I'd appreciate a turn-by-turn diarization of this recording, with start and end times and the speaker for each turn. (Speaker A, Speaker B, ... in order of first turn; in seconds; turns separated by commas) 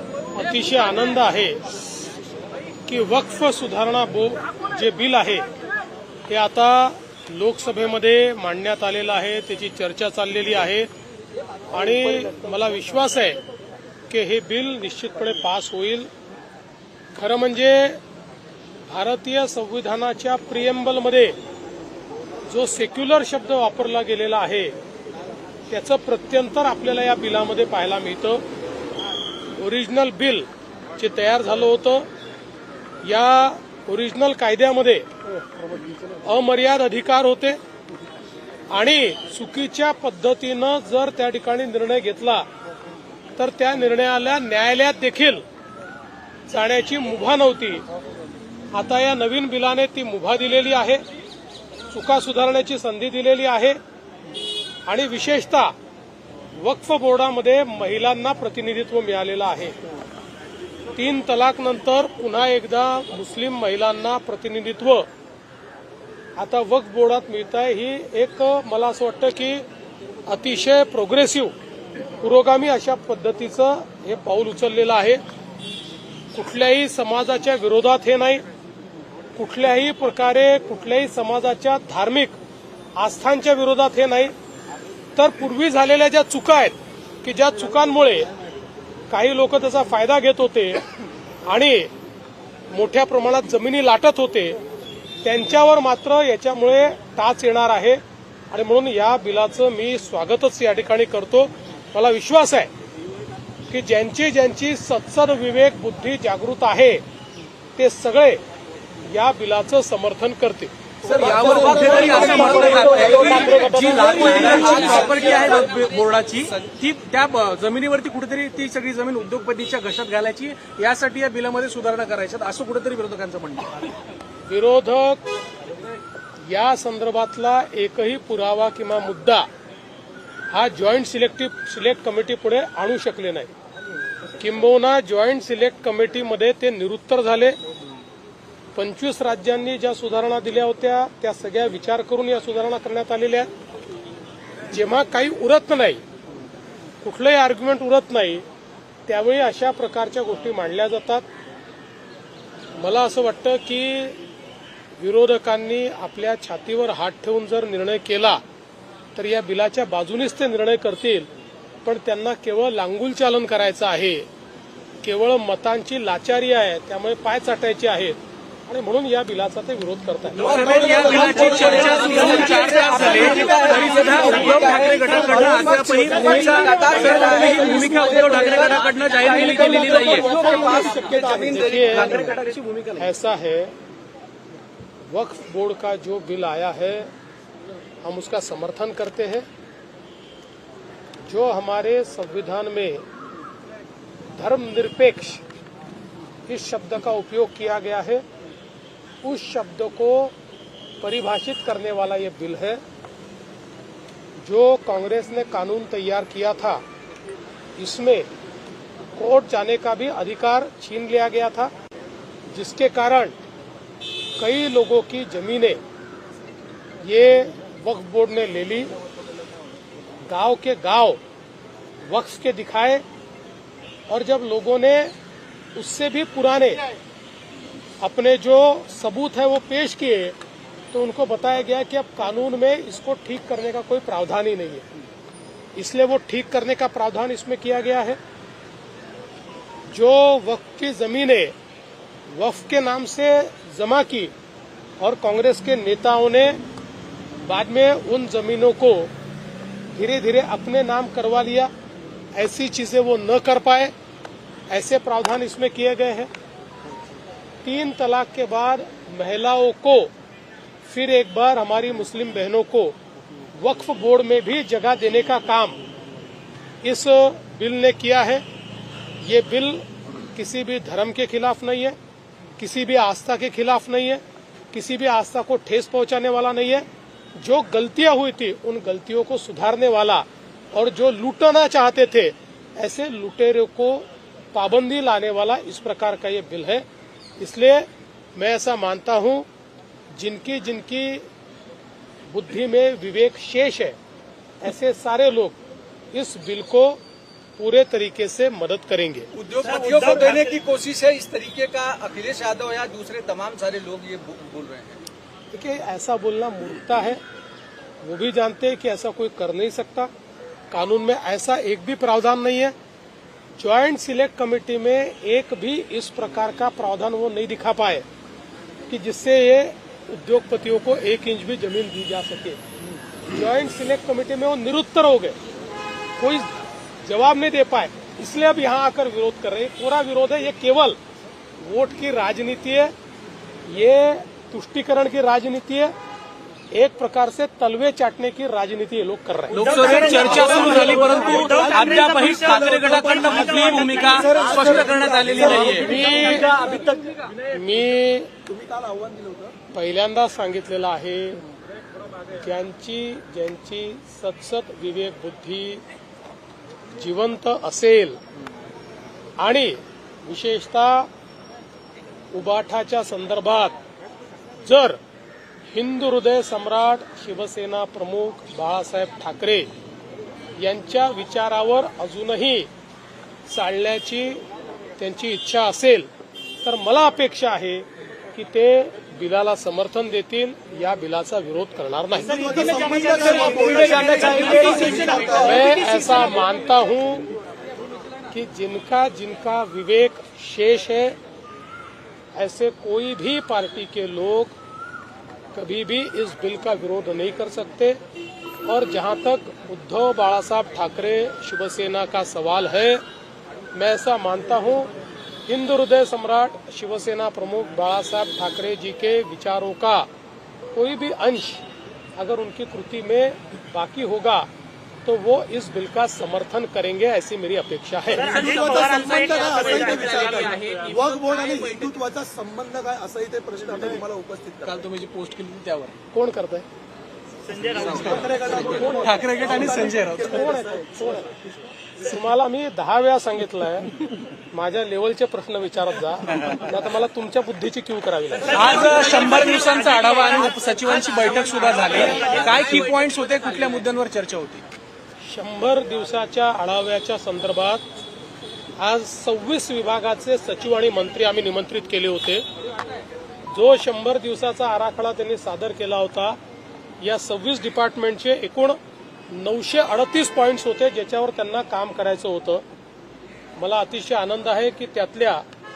Speaker A: 0.3-1.6, Speaker A: 2.9-5.5, Speaker A: 6.3-10.9, Speaker A: 11.7-13.4, Speaker A: 14.1-16.1, Speaker A: 17.1-18.0, Speaker A: 18.9-21.4, Speaker A: 22.5-24.8, Speaker A: 25.7-28.4, Speaker A: 29.6-32.1, Speaker A: 33.0-35.1, Speaker A: 36.2-37.6, Speaker A: 38.7-42.5, Speaker A: 43.4-45.4, Speaker A: 46.5-47.8, Speaker A: 48.7-51.0, Speaker A: 51.9-53.8, Speaker A: 54.9-55.7, Speaker A: 56.6-59.8, Speaker A: 61.0-65.1, Speaker A: 66.4-69.6, Speaker A: 70.3-71.5, Speaker A: 72.2-75.2, Speaker A: 76.3-78.5, Speaker A: 79.4-82.4, Speaker A: 83.0-84.3, Speaker A: 85.2-88.3, Speaker A: 89.1-90.9, Speaker A: 91.5-91.9, Speaker A: 92.7-94.6, Speaker A: 95.2-102.7, Speaker A: 103.7-107.0, Speaker A: 107.8-108.4, Speaker A: 109.1-110.7, Speaker B: 111.0-115.3, Speaker C: 111.0-123.9, Speaker D: 111.4-113.5, Speaker A: 112.2-115.2, Speaker D: 114.1-115.8, Speaker A: 124.5-125.2, Speaker A: 126.4-129.5, Speaker A: 130.5-133.5, Speaker A: 134.4-137.6, Speaker A: 138.8-143.5, Speaker A: 144.7-146.0, Speaker A: 147.0-148.5, Speaker A: 149.1-151.3, Speaker A: 152.8-154.2, Speaker A: 155.0-158.4, Speaker A: 159.2-161.3, Speaker A: 161.8-164.3, Speaker A: 165.0-171.4, Speaker C: 170.4-180.3, Speaker B: 170.4-173.4, Speaker D: 171.7-182.6, Speaker B: 174.9-182.0, Speaker A: 179.5-180.9, Speaker C: 180.9-181.2, Speaker A: 181.4-182.3, Speaker C: 182.0-183.1, Speaker A: 183.0-183.7, Speaker A: 185.1-187.1, Speaker A: 188.0-189.5, Speaker A: 191.3-193.1, Speaker A: 194.4-195.4, Speaker A: 196.5-198.2, Speaker A: 199.2-200.3, Speaker A: 201.0-202.8, Speaker A: 204.4-206.8, Speaker A: 207.8-208.3, Speaker A: 209.2-211.7, Speaker A: 212.5-213.4, Speaker A: 214.4-215.8, Speaker A: 217.0-218.9, Speaker A: 220.3-221.2, Speaker A: 222.1-223.0, Speaker A: 224.1-225.1, Speaker A: 225.8-226.9, Speaker A: 228.0-230.4, Speaker A: 230.9-234.9, Speaker A: 235.8-238.2, Speaker A: 239.9-241.6, Speaker A: 242.3-244.3, Speaker A: 245.0-246.6, Speaker A: 247.4-249.1, Speaker A: 249.9-251.7, Speaker A: 252.3-253.9, Speaker A: 254.7-256.3, Speaker A: 257.6-260.1, Speaker A: 260.9-263.0, Speaker A: 263.6-265.8, Speaker A: 266.8-268.4, Speaker A: 269.2-272.0, Speaker A: 272.6-276.9, Speaker A: 277.4-286.9, Speaker A: 287.4-289.5, Speaker A: 290.1-291.2, Speaker A: 292.3-294.0, Speaker A: 294.6-295.6, Speaker A: 296.1-297.0, Speaker A: 297.6-299.3, Speaker D: 299.3-305.0, Speaker E: 299.6-300.6, Speaker A: 305.5-307.2, Speaker A: 308.0-310.1, Speaker A: 310.7-312.7, Speaker A: 313.6-318.1, Speaker A: 318.9-322.6, Speaker A: 323.3-325.4, Speaker A: 326.2-326.5, Speaker A: 327.0-331.0, Speaker A: 331.6-332.9, Speaker A: 333.7-335.9, Speaker A: 336.7-340.8, Speaker C: 339.5-346.0, Speaker E: 339.5-345.0, Speaker B: 340.4-341.7, Speaker B: 344.1-347.9, Speaker A: 345.4-346.5, Speaker A: 347.5-348.3, Speaker B: 348.4-349.6, Speaker A: 349.7-351.4, Speaker A: 352.3-355.8, Speaker A: 357.0-358.2, Speaker A: 359.4-361.1, Speaker A: 362.3-363.8, Speaker A: 364.6-365.0, Speaker A: 365.7-369.7, Speaker A: 370.6-372.7, Speaker A: 373.5-374.4, Speaker A: 375.0-376.1, Speaker A: 376.6-382.6, Speaker E: 382.2-386.3, Speaker B: 382.2-385.8, Speaker D: 383.2-385.4, Speaker A: 385.4-387.3, Speaker A: 388.3-391.2, Speaker A: 392.4-394.5, Speaker A: 395.5-398.0, Speaker A: 398.6-403.0, Speaker A: 403.7-404.9, Speaker A: 405.5-410.1, Speaker A: 410.7-411.6, Speaker A: 412.2-414.5, Speaker A: 415.1-418.4, Speaker E: 418.1-421.0, Speaker B: 418.2-424.8, Speaker C: 418.5-421.7, Speaker C: 424.6-425.9, Speaker A: 426.1-426.7, Speaker E: 427.4-428.5, Speaker C: 427.7-430.4, Speaker B: 427.8-431.5, Speaker A: 430.2-431.3, Speaker A: 432.0-438.9, Speaker E: 438.4-442.8, Speaker C: 438.5-444.6, Speaker B: 441.6-442.8, Speaker A: 445.2-447.8, Speaker A: 448.8-452.5, Speaker A: 453.5-456.4, Speaker A: 457.0-458.8, Speaker A: 459.3-462.6, Speaker A: 463.6-465.4